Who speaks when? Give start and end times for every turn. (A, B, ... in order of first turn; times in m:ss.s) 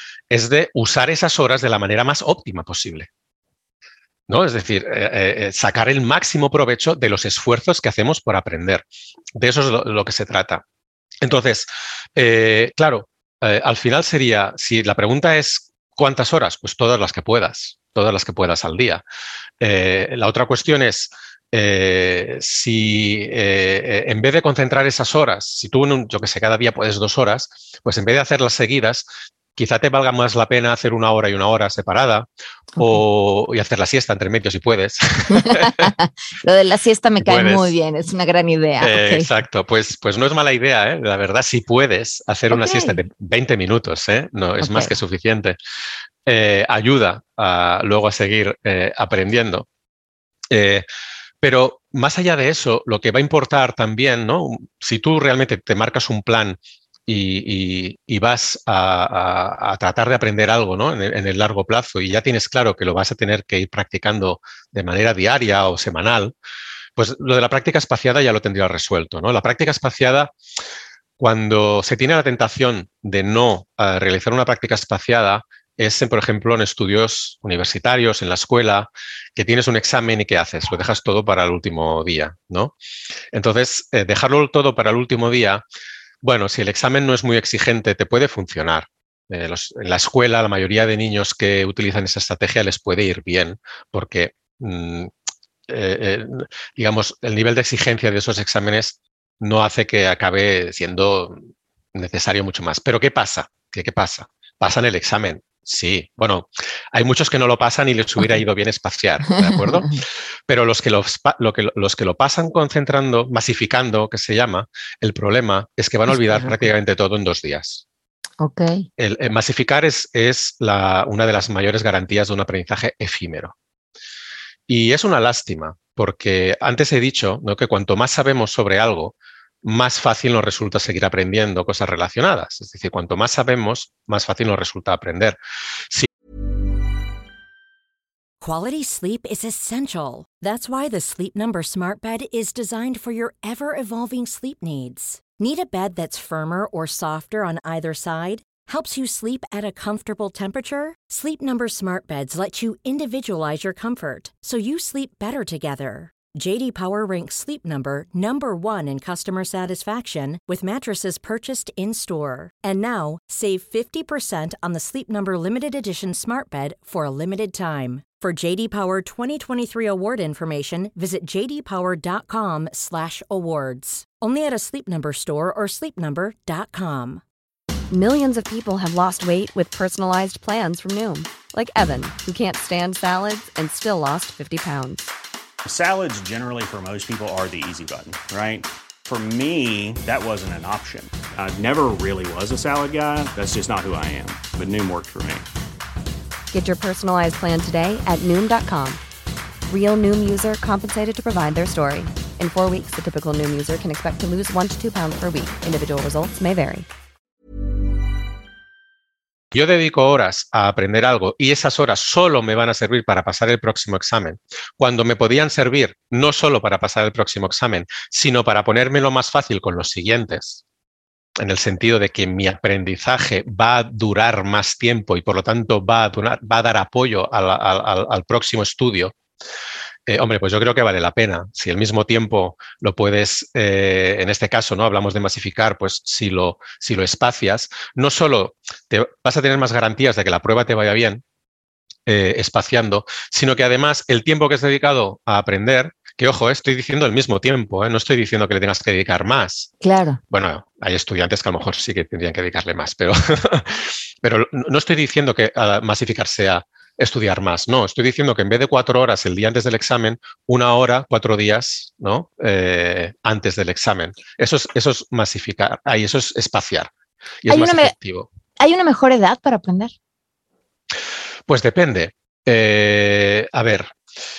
0:00.3-0:03.1 A
0:04.3-0:10.6 A
0:11.2-0:19.0 A
0:19.6-0:35.9 A
0:35.3-0:39.3 B
0:37.2-0:37.7 A
0:38.8-0:45.6 A
0:42.5-0:43.0 B
0:44.6-0:44.9 B
0:46.3-0:49.7 A
0:50.5-0:50.9 A
0:51.4-1:06.4 A
1:07.0-1:10.3 A
1:11.2-1:22.7 A
1:23.3-1:25.6 A
1:26.2-1:35.1 A
1:35.7-1:41.4 A
1:41.9-1:57.8 A
1:49.4-1:50.0 B
1:56.1-1:56.7 B
1:58.4-1:58.9 B
1:59.0-2:03.6 A
2:04.7-2:15.4 A
2:18.4-2:57.2 C
2:57.9-3:05.1 D
3:05.6-3:15.5 E
3:16.5-3:19.0 D
3:19.7-3:26.9 D
3:29.5-3:40.6 A
3:41.4-3:49.2 A
3:50.1-4:01.2 A
4:02.1-4:09.7 A
4:09.8-4:10.2 B
4:10.3-4:26.9 A
4:27.4-4:28.3 A
4:27.5-4:27.9 B
4:28.6-4:30.0 B
4:31.5-4:33.9 A